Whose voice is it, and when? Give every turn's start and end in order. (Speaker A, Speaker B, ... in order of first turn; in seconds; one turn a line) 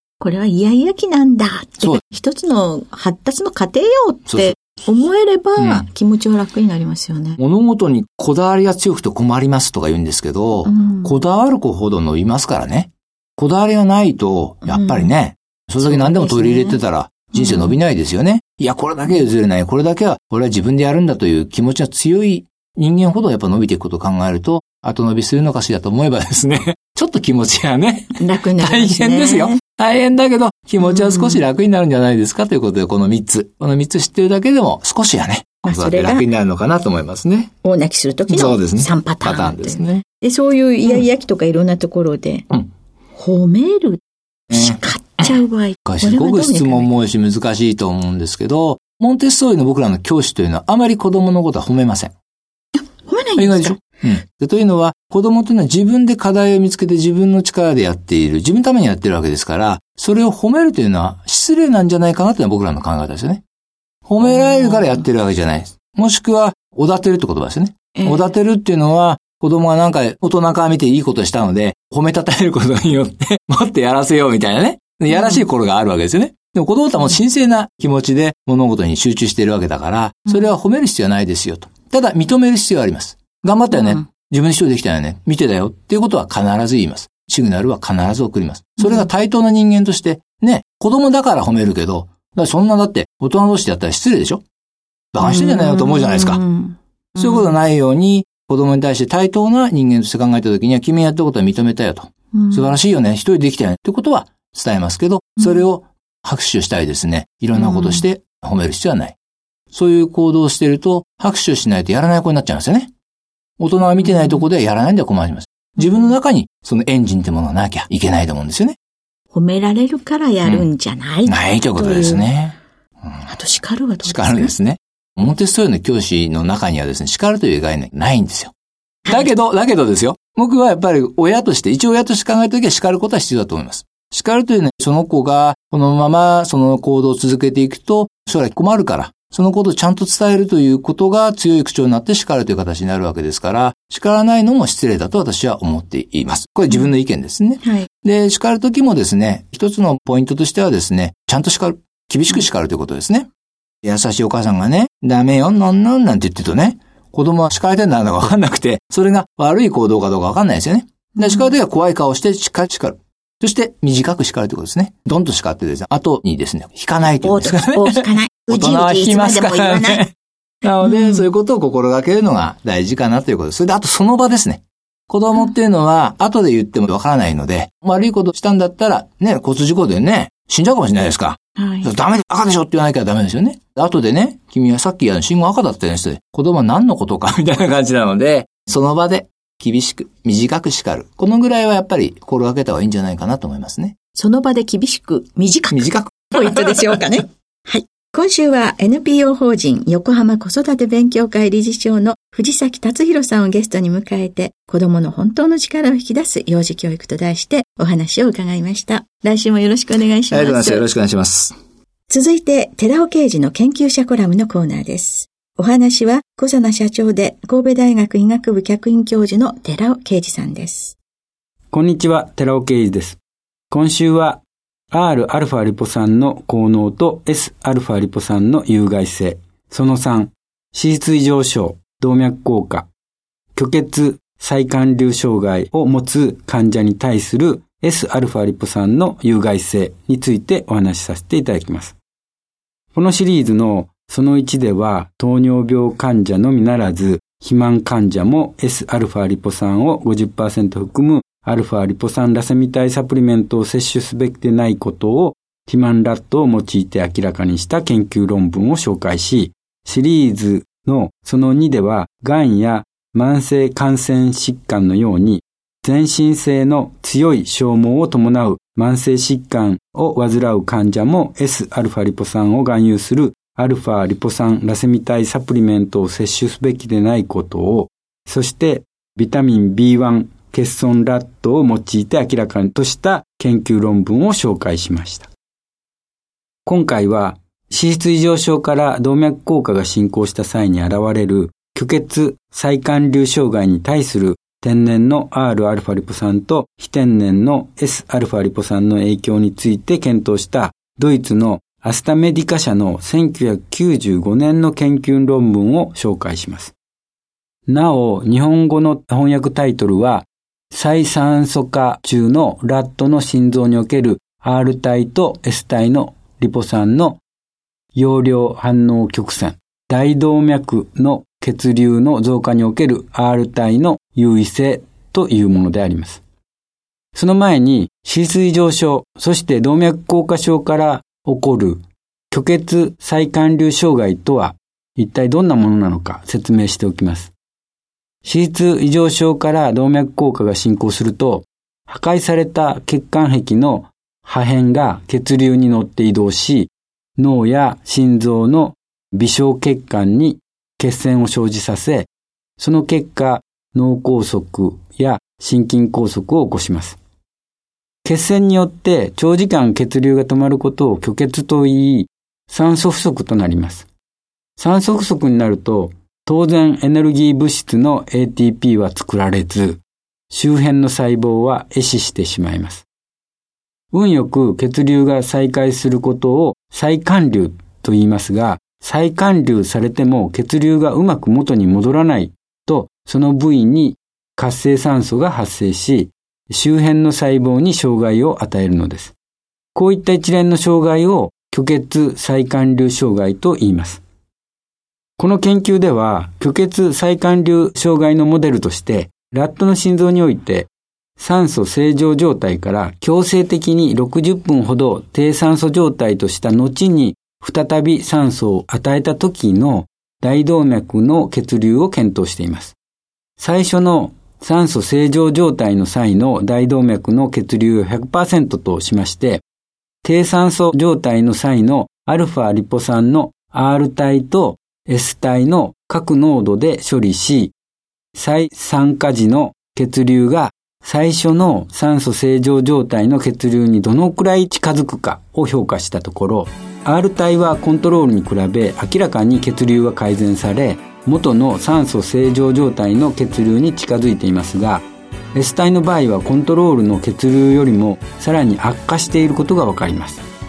Speaker A: 0.2-7.4
Speaker B: 4.3-4.8
Speaker B: 5.6-5.9
Speaker B: 7.4-37.5
Speaker A: 10.6-11.1
Speaker A: 14.7-15.1
Speaker A: 15.8-16.8
Speaker A: 17.4-17.7
Speaker A: 28.2-29.6
Speaker A: 30.8-31.4
Speaker A: 35.6-36.2
Speaker A: 37.6-42.5
Speaker B: 38.3-40.0
Speaker A: 43.1-46.9
Speaker B: 44.5-45.3
Speaker B: 45.8-52.1
Speaker A: 52.8-53.8
Speaker B: 53.4-63.4
Speaker B: 64.1-94.4
Speaker B: 95.1-96.4
Speaker A: 95.2-97.3
Speaker B: 97.2-109.2
Speaker A: 102.3-102.7
Speaker A: 107.5-108.0
Speaker B: 109.7-112.9
Speaker B: 113.6-118.8
Speaker A: 119.3-122.3
Speaker B: 121.3-123.2
Speaker A: 123.3-124.5
Speaker B: 124.0-128.5
Speaker B: 129.1-153.3
Speaker A: 147.6-147.9
Speaker B: 153.8-170.1
Speaker A: 167.2-170.0
Speaker B: 170.6-193.9
Speaker A: 170.8-171.2
Speaker A: 181.6-181.9
Speaker A: 194.1-210.8
Speaker B: 195.7-197.0
Speaker B: 210.3-211.6
Speaker A: 212.1-220.9
Speaker C: 221.7-223.2
Speaker C: 223.7-232.9
Speaker C: 233.5-242.0
Speaker C: 242.9-285.3
Speaker C: 286.6-306.7
Speaker C: 307.7-317.2
Speaker C: 317.9-326.2
Speaker C: 327.1-337.3
Speaker C: 338.2-357.0
Speaker C: 358.0-363.9
Speaker C: 364.6-372.9
Speaker C: 373.9-389.1
Speaker C: 389.7-394.0
Speaker C: 395.2-412.8
Speaker C: 413.4-419.4
Speaker C: 420.0-427.5
Speaker C: 428.1-450.2